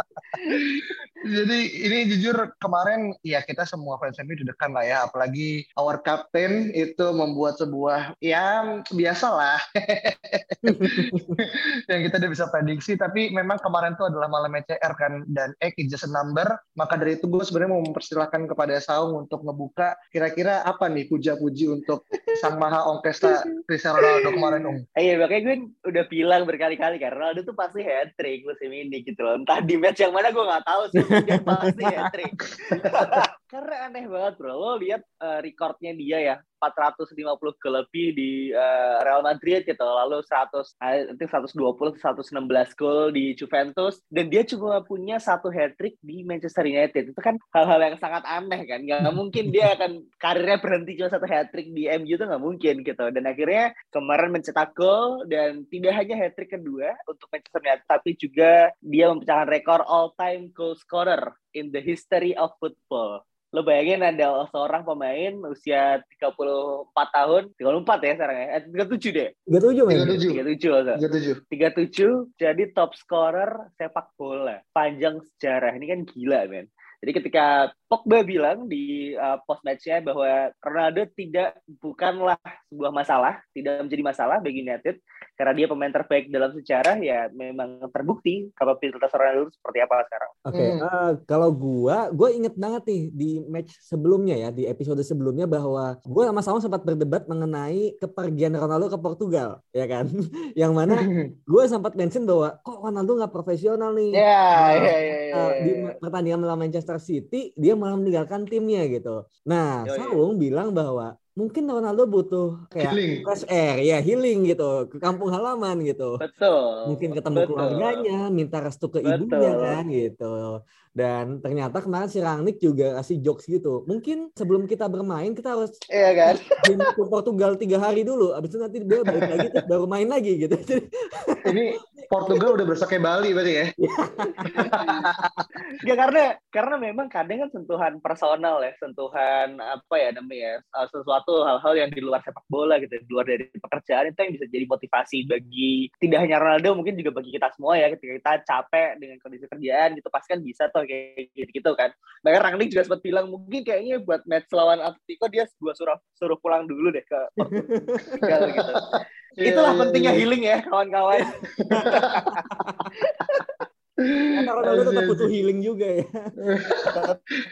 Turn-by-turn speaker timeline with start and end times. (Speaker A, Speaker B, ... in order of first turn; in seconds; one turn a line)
Speaker A: 0.3-24.8
Speaker B: 10.6-11.4
Speaker C: 24.0-24.4
Speaker C: 25.0-69.3
Speaker B: 31.0-32.0
Speaker B: 49.0-49.7
Speaker B: 69.5-70.2
Speaker A: 69.9-70.4
Speaker C: 70.2-71.0
Speaker A: 71.0-71.4
Speaker C: 71.5-90.3
Speaker B: 90.5-116.2
Speaker A: 90.5-90.8
Speaker A: 100.9-101.3
Speaker C: 104.1-105.9
Speaker C: 109.9-110.2
Speaker A: 112.8-113.3
Speaker C: 116.2-118.0
Speaker B: 116.9-125.8
Speaker C: 119.0-119.8
Speaker C: 125.9-126.5
Speaker B: 126.6-132.1
Speaker A: 131.4-133.7
Speaker B: 133.8-135.1
Speaker C: 134.4-134.9
Speaker A: 134.5-135.4
Speaker C: 135.7-157.7
Speaker B: 157.5-158.2
Speaker C: 158.2-158.8
Speaker A: 159.4-160.2
Speaker C: 159.4-162.4
Speaker A: 161.6-162.1
Speaker B: 162.5-162.8
Speaker C: 163.0-163.5
Speaker A: 164.0-165.3
Speaker B: 164.3-166.3
Speaker A: 166.4-167.2